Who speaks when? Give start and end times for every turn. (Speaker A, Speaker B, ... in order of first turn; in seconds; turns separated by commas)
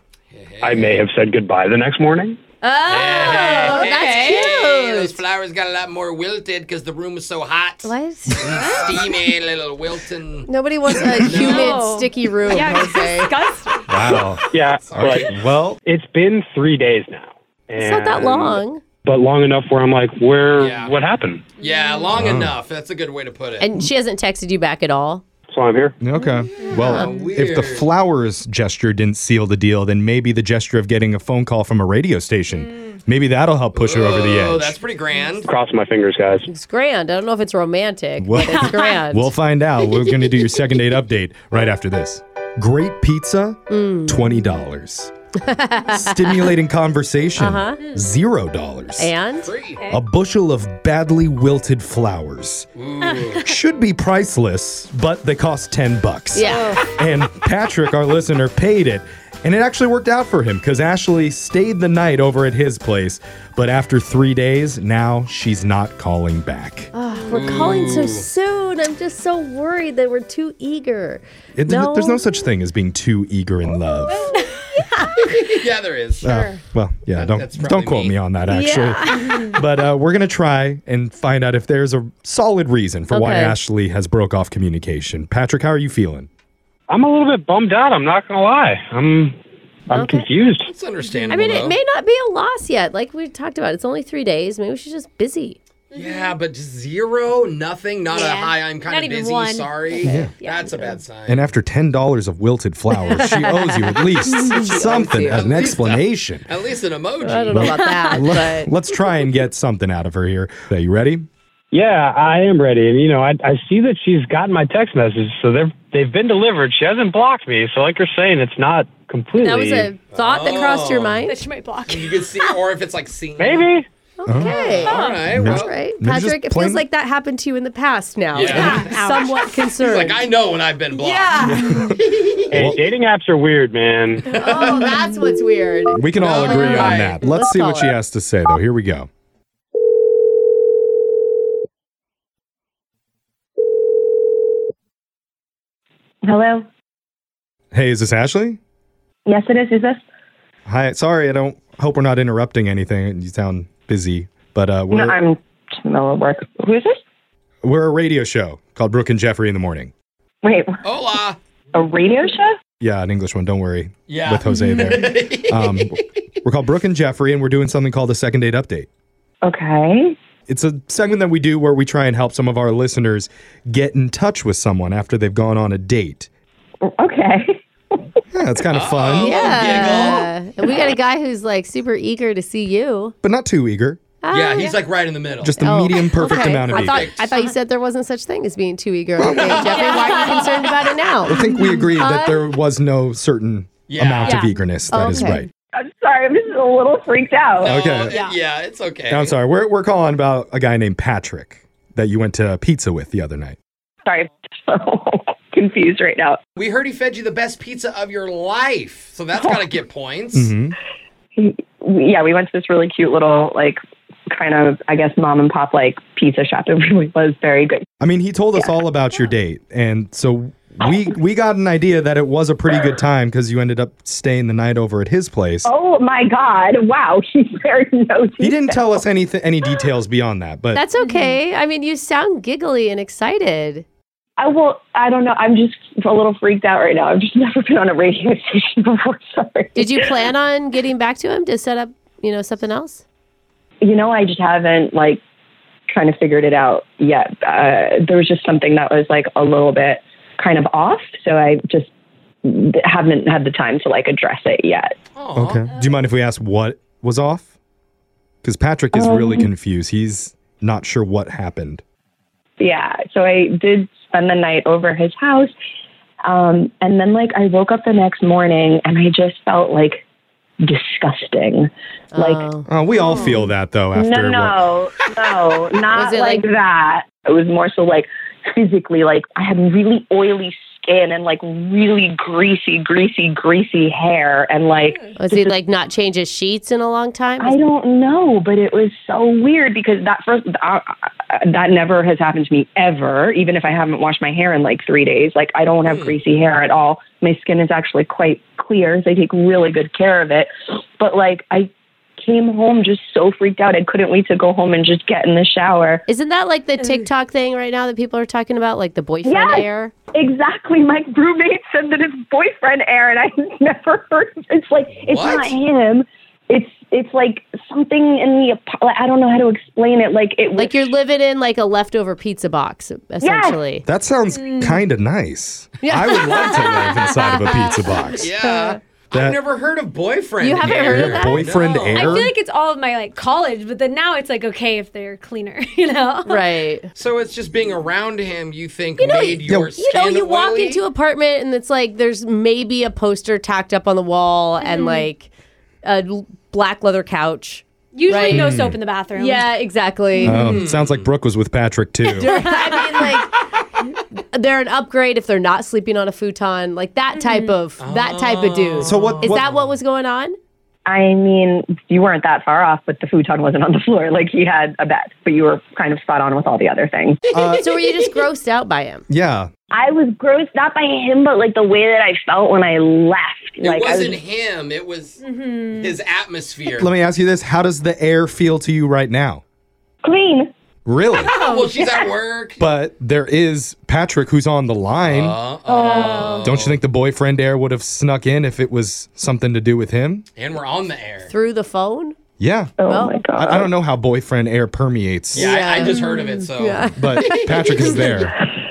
Speaker A: 0.3-1.0, Speaker B: 0.6-2.4, Speaker C: 2.6-5.2, Speaker A: 2.9-10.5, Speaker D: 3.3-4.4, Speaker C: 7.8-8.5, Speaker D: 8.5-9.1, Speaker C: 10.5-13.3, Speaker A: 11.2-11.7, Speaker D: 11.3-14.2, Speaker E: 13.9-14.4, Speaker A: 14.1-15.3, Speaker B: 14.5-15.3, Speaker E: 14.9-15.8, Speaker B: 15.8-21.5, Speaker C: 17.8-18.8, Speaker A: 20.6-20.9, Speaker D: 21.6-22.1, Speaker A: 21.6-23.7, Speaker E: 22.1-22.6, Speaker C: 23.6-25.2, Speaker B: 25.5-26.0, Speaker E: 26.0-34.8, Speaker D: 26.1-27.1, Speaker A: 26.8-27.9, Speaker D: 32.5-32.9, Speaker A: 33.7-35.5, Speaker B: 35.4-36.5, Speaker C: 36.5-39.3, Speaker E: 38.2-45.1, Speaker D: 38.5-38.9, Speaker D: 39.8-40.3, Speaker C: 43.7-44.4, Speaker C: 45.4-46.5, Speaker E: 45.9-49.1, Speaker C: 47.4-47.8, Speaker C: 49.0-49.5, Speaker A: 49.4-49.8, Speaker D: 49.8-50.0, Speaker E: 49.9-52.7, Speaker A: 52.8-53.5, Speaker E: 53.3-66.9, Speaker C: 56.3-56.8, Speaker D: 56.5-56.8, Speaker C: 66.9-72.2, Speaker A: 67.3-68.3, Speaker E: 71.5-74.3, Speaker D: 74.1-75.4, Speaker C: 74.8-75.2, Speaker A: 75.3-76.3, Speaker E: 76.2-86.3, Speaker D: 76.2-76.6, Speaker A: 77.1-78.2, Speaker C: 78.5-79.5, Speaker C: 83.1-83.6, Speaker B: 86.9-89.4, Speaker B: 89.9-90.7, Speaker C: 89.9-90.3, Speaker A: 90.7-91.8, Speaker D: 91.1-91.4, Speaker C: 91.3-95.6, Speaker A: 95.9-101.5, Speaker D: 95.9-96.4, Speaker D: 98.1-101.0, Speaker C: 100.0-100.3, Speaker E: 100.0-100.3, Speaker E: 101.2-106.5, Speaker C: 103.0-105.6, Speaker A: 105.2-107.8, Speaker C: 107.2-108.7, Speaker E: 107.5-111.3, Speaker D: 107.7-108.3, Speaker B: 111.7-119.9, Speaker C: 119.4-121.4, Speaker A: 120.1-121.3, Speaker D: 121.2-122.6, Speaker A: 121.9-123.7, Speaker B: 123.4-123.8, Speaker C: 124.2-130.3, Speaker E: 124.3-124.5, Speaker D: 124.3-125.3, Speaker A: 124.5-125.8, Speaker E: 125.2-126.8, Speaker A: 128.3-132.7, Speaker D: 128.4-129.3, Speaker C: 131.0-131.6, Speaker D: 131.1-131.8, Speaker E: 131.4-131.9, Speaker B: 132.5-134.3, Speaker E: 132.5-132.8, Speaker A: 134.2-135.0, Speaker C: 134.3-138.0, Speaker E: 135.9-139.1, Speaker A: 136.2-137.2, Speaker F: 146.2-146.6, Speaker E: 147.7-148.6, Speaker F: 149.2-150.0, Speaker E: 150.7-155.2, Speaker F: 154.9-157.0, Speaker E: 157.6-159.9, Speaker F: 160.4-160.8, Speaker A: 160.8-161.4, Speaker F: 161.7-162.5, Speaker E: 162.8-168.9, Speaker A: 164.1-166.1, Speaker F: 169.4-170.2, Speaker E: 170.5-176.3, Speaker F: 176.8-178.0, Speaker E: 178.3-179.9, Speaker A: 178.7-180.3, Speaker C: 179.2-183.1, Speaker E: 183.2-184.0, Speaker C: 184.2-184.8, Speaker A: 184.3-185.6, Speaker E: 185.4-187.1, Speaker C: 185.6-192.5, Speaker A: 186.7-187.3, Speaker E: 189.2-190.2, Speaker A: 189.6-190.7, Speaker D: 189.7-190.5, Speaker E: 191.2-195.5, Speaker A: 193.9-194.5, Speaker D: 194.2-194.6, Speaker C: 194.9-195.5, Speaker F: 195.7-197.8, Speaker A: 197.6-199.4, Speaker E: 197.6-198.2, Speaker D: 198.0-198.4, Speaker E: 199.1-203.6, Speaker F: 204.1-206.4, Speaker A: 206.6-210.5, Speaker F: 209.3-209.6, Speaker E: 210.3-210.8, Speaker F: 211.3-217.8, Speaker E: 218.0-225.7, Speaker F: 225.6-229.0, Speaker E: 228.4-230.8, Speaker C: 230.7-233.8, Speaker D: 231.0-231.4, Speaker F: 234.4-240.1, Speaker C: 239.7-243.0, Speaker F: 243.8-245.2, Speaker F: 245.9-251.9, Speaker F: 252.4-254.9, Speaker A: 255.2-255.7, Speaker E: 255.3-257.5, Speaker E: 258.4-261.8, Speaker F: 258.9-259.5, Speaker F: 262.6-265.5, Speaker F: 266.2-270.0, Speaker F: 270.6-285.5, Speaker C: 272.1-272.7, Speaker E: 272.7-274.7, Speaker C: 275.9-276.5, Speaker C: 285.2-287.6, Speaker F: 287.4-306.0, Speaker A: 295.8-296.1, Speaker C: 306.1-309.9, Speaker F: 309.2-320.9, Speaker A: 315.0-315.6, Speaker C: 320.6-323.9, Speaker F: 323.2-323.6, Speaker E: 323.9-328.3, Speaker D: 324.3-324.8, Speaker C: 325.8-328.8, Speaker A: 328.1-332.1, Speaker E: 329.1-329.4, Speaker C: 330.4-332.3, Speaker E: 330.6-332.3, Speaker D: 331.9-336.4, Speaker C: 336.2-336.9, Speaker A: 336.9-340.8, Speaker C: 339.0-345.3, Speaker E: 339.4-339.7, Speaker D: 344.6-345.1, Speaker C: 345.8-348.5, Speaker D: 347.9-349.5, Speaker E: 348.3-348.8, Speaker C: 349.1-350.6, Speaker E: 350.2-352.3, Speaker A: 350.3-351.1, Speaker C: 352.1-353.3, Speaker D: 352.2-353.0, Speaker C: 354.1-360.4, Speaker D: 357.1-357.5, Speaker A: 357.8-359.4, Speaker E: 358.8-359.5, Speaker F: 360.9-367.2, Speaker E: 367.3-367.7, Speaker C: 367.6-369.0, Speaker E: 369.1-369.5, Speaker F: 369.7-374.2, Speaker A: 373.6-375.2, Speaker D: 375.2-375.9, Speaker A: 375.7-376.9, Speaker E: 376.8-379.4, Speaker F: 380.0-380.5, Speaker E: 380.9-381.3, Speaker D: 381.2-382.1, Speaker A: 381.3-382.6, Speaker E: 382.6-385.4, Speaker A: 385.0-386.8, Speaker D: 385.7-386.5, Speaker E: 386.4-390.3, Speaker A: 390.3-391.3, Speaker C: 391.2-392.1, Speaker E: 392.4-392.8, Speaker F: 392.8-393.7, Speaker C: 392.9-393.2, Speaker E: 393.3-395.5, Speaker A: 395.3-397.9, Speaker C: 395.3-398.2, Speaker E: 396.9-398.4